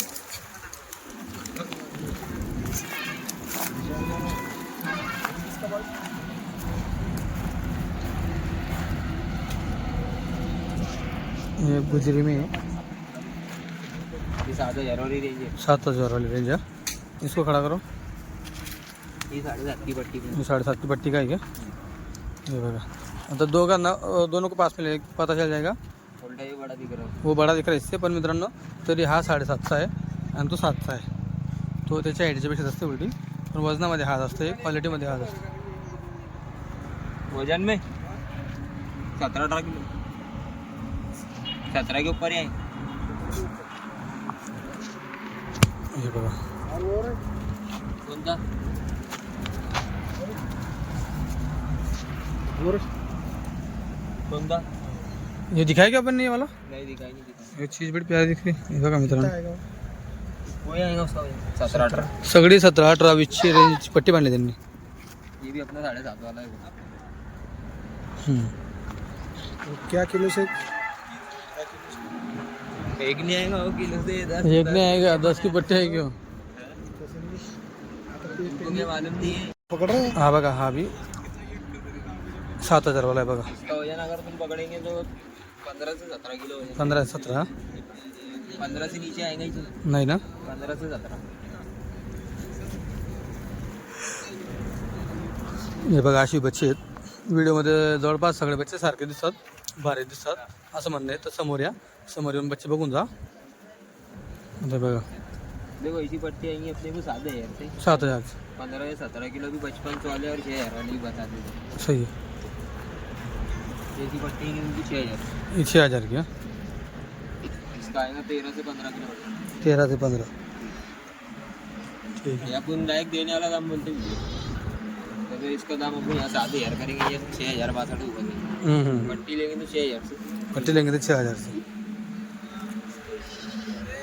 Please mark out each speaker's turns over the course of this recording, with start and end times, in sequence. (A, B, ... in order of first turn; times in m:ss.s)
0:11.6-0:12.5 A
0:14.4-0:15.6 B
0:15.6-0:16.6 A
0:17.2-0:17.8 A
0:19.3-0:20.4 B
0:20.3-0:21.4 A
0:22.4-0:25.8 A
0:26.2-0:27.2 B
0:27.2-0:31.1 A
0:31.9-0:35.4 A
0:37.3-0:37.8 B
0:39.2-0:39.9 B
0:41.7-0:42.6 B
0:45.9-0:46.4 A
0:46.7-0:47.2 C
0:48.0-0:48.4 B
0:52.6-0:52.8 C
0:54.3-0:54.7 B
0:55.5-0:56.5 A
0:56.6-0:57.5 B
0:57.5-0:59.4 A
0:59.1-0:59.6 C
1:00.6-1:02.2 B
1:02.2-1:04.6 A
1:05.4-1:06.9 B
1:08.2-1:08.5 A
1:09.6-1:10.5 C
1:11.6-1:12.0 C
1:12.9-1:16.8 B
1:14.4-1:16.1 A
1:17.0-1:17.5 C
1:18.1-1:19.5 B
1:19.7-1:20.1 C
1:20.0-1:20.9 A
1:22.6-1:23.5 A
1:23.4-1:29.7 B
1:26.8-1:27.5 A
1:29.8-1:30.2 A
1:30.3-1:31.2 B
1:35.7-1:43.1 A
1:44.6-1:45.0 A
1:45.8-1:51.7 B
1:47.8-1:48.3 A
1:51.8-1:52.1 A
1:53.9-1:55.3 B
1:55.5-1:56.3 A
1:57.7-1:59.4 B
1:59.6-2:00.3 A
2:02.2-2:02.5 A
2:02.4-2:04.2 B
2:05.2-2:10.7 B
2:08.6-2:09.1 A
2:10.5-2:11.6 A